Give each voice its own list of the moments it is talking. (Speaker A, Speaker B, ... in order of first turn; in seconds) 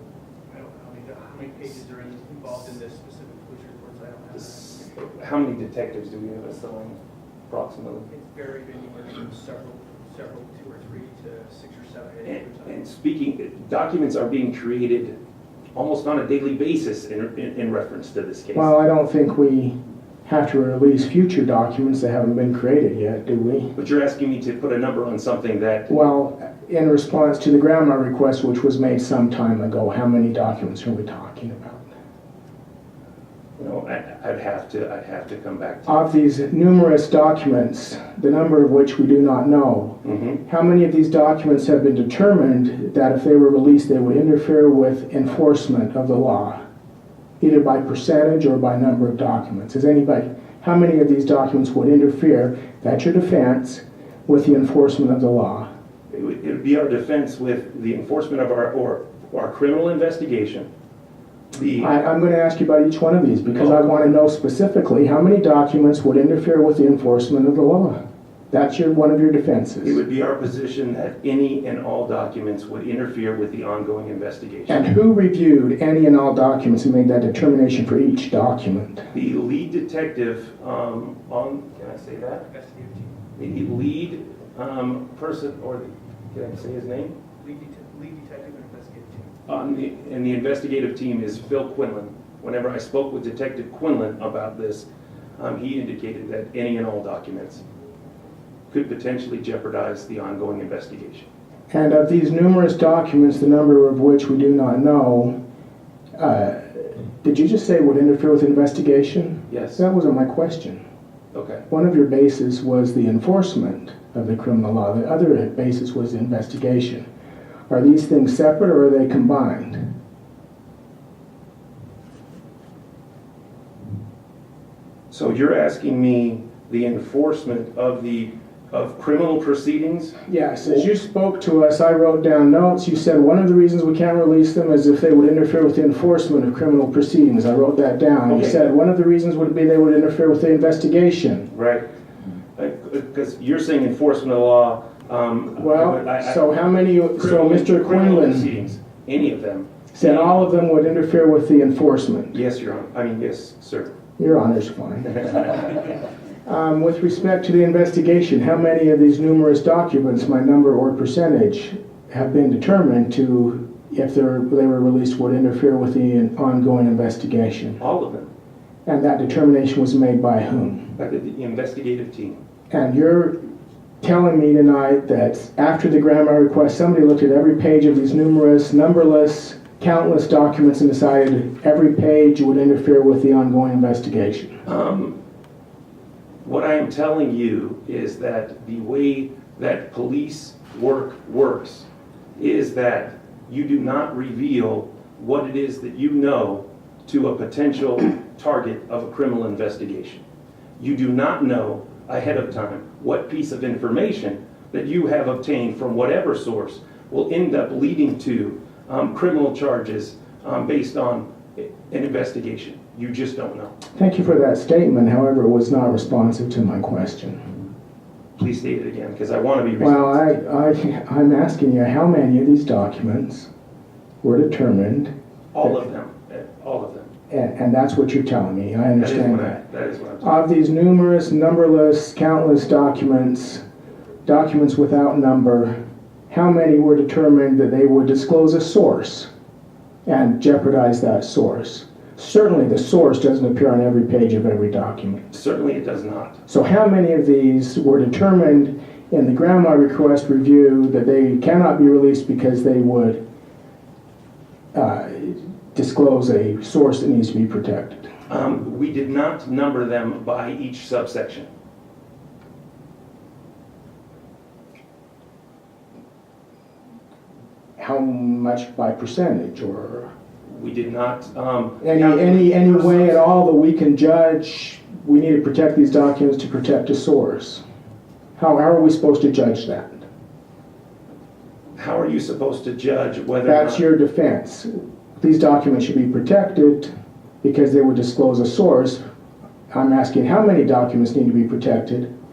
Speaker A: 0.5-4.9, 8.1-12.8, 82.5-83.2, 87.4-89.3
Speaker B: 4.3-7.0, 7.5-8.1, 12.2-15.2, 15.8-18.7, 23.8-26.1, 33.6-36.0, 40.0-40.4, 56.1-60.7, 61.5-61.9, 69.8-74.9, 79.1-82.5, 83.4-87.2, 89.5-94.9, 95.4-97.6, 98.7-101.3, 109.5-109.8, 111.3-111.7, 125.1-130.8, 138.3-138.6, 141.5-141.9, 142.6-146.4, 147.2-150.4, 152.3-153.9, 167.8-168.3, 171.0-172.4, 184.7-185.2, 186.4-200.2, 200.8-213.7, 218.4-220.3, 225.5-227.1, 229.0-230.3, 245.3-246.4, 258.3-261.5, 270.5-273.3, 281.8-283.9
Speaker C: 18.5-23.7, 25.9-31.9, 35.9-46.6, 47.4-55.7, 61.8-68.0, 68.5-70.0, 74.7-79.1, 101.7-105.3, 106.2-110.8, 111.7-117.0, 117.7-119.9, 130.3-141.5, 145.6-148.5, 149.9-152.4, 154.2-155.6, 156.4-167.8, 168.9-171.0, 172.7-173.4, 174.0-184.6, 213.9-217.4, 219.8-223.5, 224.2-225.1, 227.3-229.6, 230.2-233.6, 234.2-235.7, 236.3-239.3, 240.1-245.3, 246.5-253.2, 254.7-258.1, 267.8-270.1, 271.8-277.6, 278.4-280.0, 283.5-286.9, 287.4-289.0, 289.7-292.1